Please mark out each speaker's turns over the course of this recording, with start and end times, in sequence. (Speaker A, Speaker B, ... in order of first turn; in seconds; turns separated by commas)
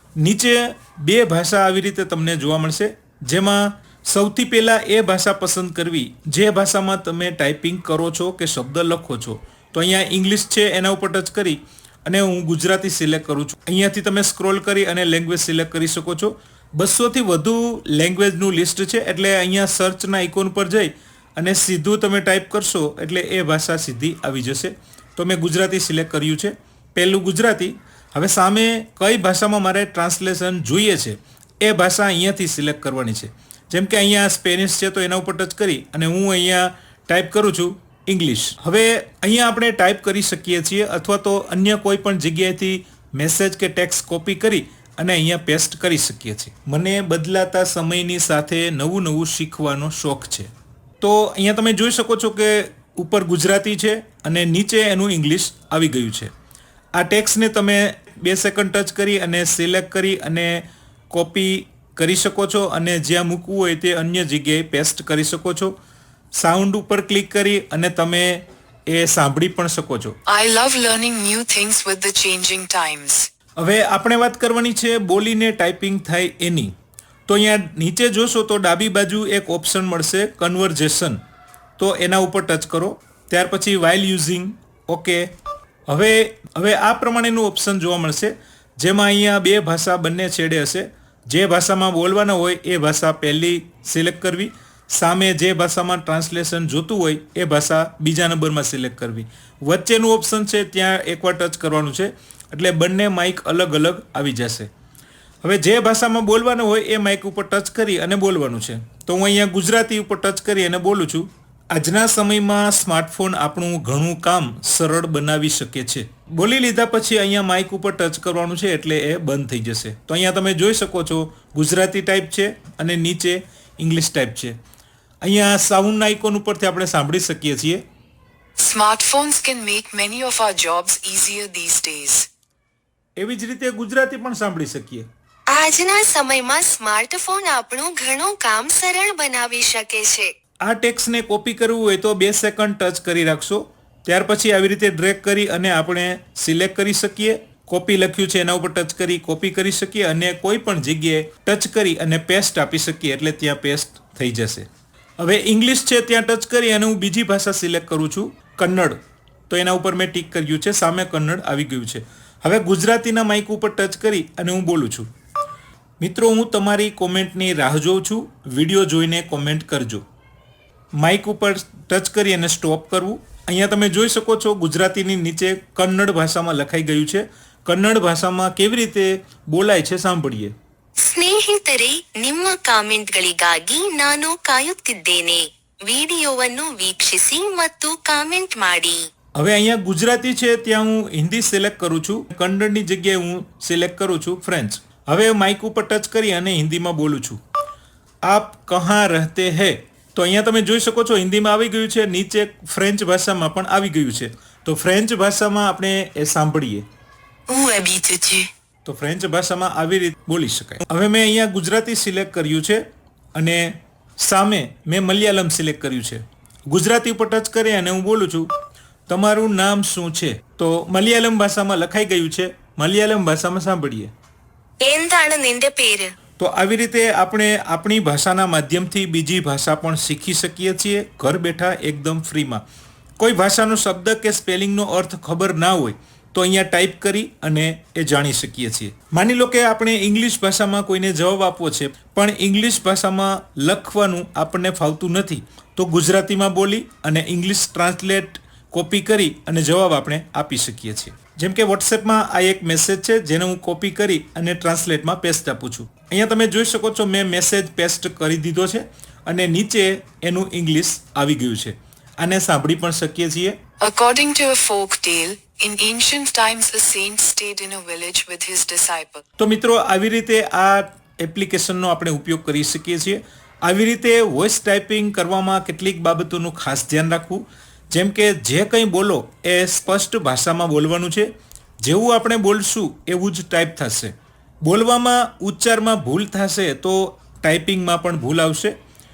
Speaker A: 0.2-50.5, Speaker A: 51.0-56.3, Speaker A: 57.0-65.7, Speaker A: 66.3-70.2, Speaker B: 70.3-73.3, Speaker A: 73.6-76.7, Speaker A: 77.3-81.2, Speaker A: 81.8-85.3, Speaker A: 85.9-104.7, Speaker A: 105.4-124.6, Speaker A: 125.2-127.8, Speaker B: 128.6-132.3, Speaker A: 133.2-135.1, Speaker C: 135.5-140.3, Speaker A: 140.7-154.7, Speaker A: 155.2-159.0, Speaker A: 159.5-165.1, Speaker A: 166.0-170.0, Speaker A: 171.0-180.5, Speaker C: 181.0-189.1, Speaker A: 189.3-197.4, Speaker A: 198.2-206.8, Speaker B: 207.5-208.4, Speaker A: 208.8-212.8, Speaker A: 213.3-218.5, Speaker A: 219.1-224.1, Speaker C: 224.8-226.1, Speaker A: 226.4-232.6, Speaker A: 233.2-263.6, Speaker B: 263.8-269.2, Speaker A: 269.4-281.3, Speaker A: 281.8-284.1, Speaker A: 284.6-288.7